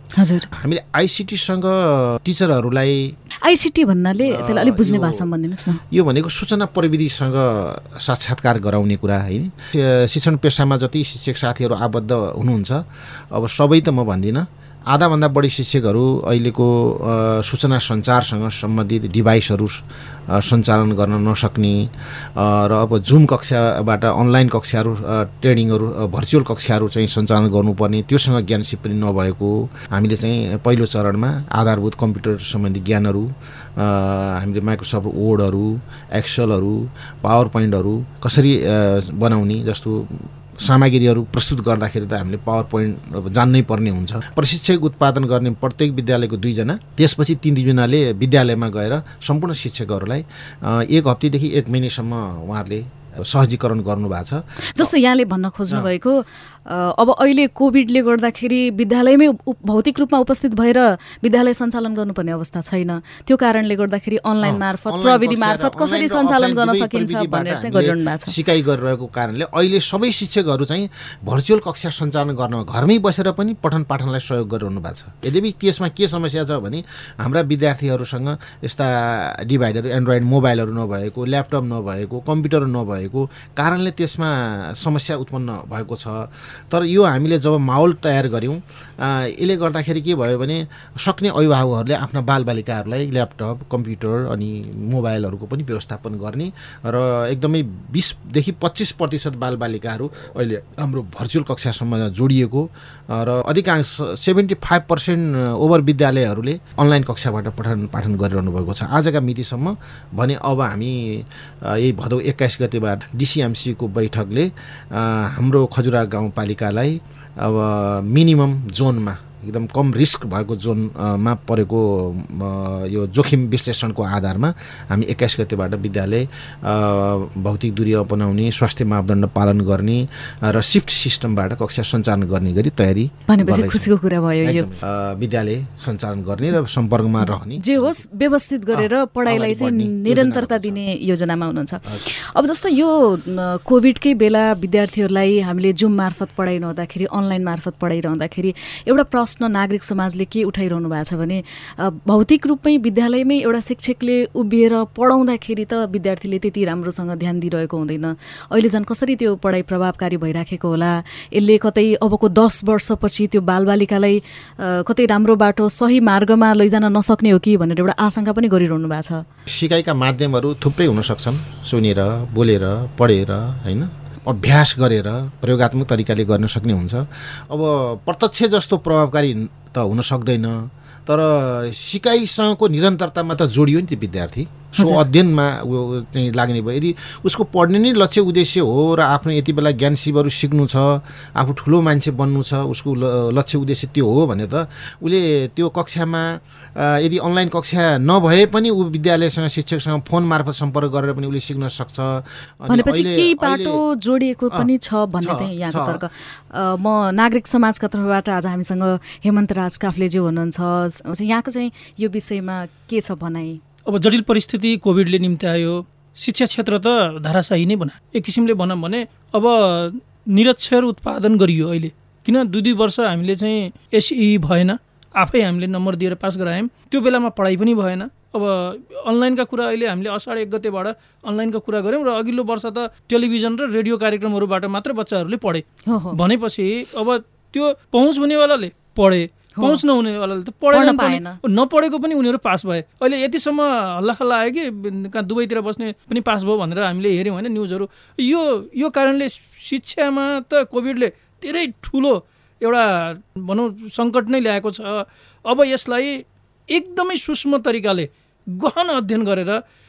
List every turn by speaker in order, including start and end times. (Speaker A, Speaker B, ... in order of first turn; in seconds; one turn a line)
Speaker A: 0.1-0.5
Speaker B: 0.5-3.1
Speaker A: 3.4-5.8
Speaker B: 4.2-5.3
Speaker B: 5.9-54.9
Speaker A: 54.8-68.3
Speaker B: 64.4-133.9
Speaker A: 133.3-134.7
Speaker B: 134.4-138.0
Speaker A: 137.6-169.2
Speaker B: 138.7-140.8
Speaker B: 169.5-203.8
Speaker A: 184.8-185.0
Speaker A: 202.7-213.6
Speaker B: 205.2-206.0
Speaker C: 213.8-259.6
Speaker A: 235.9-236.2
Speaker A: 240.7-241.4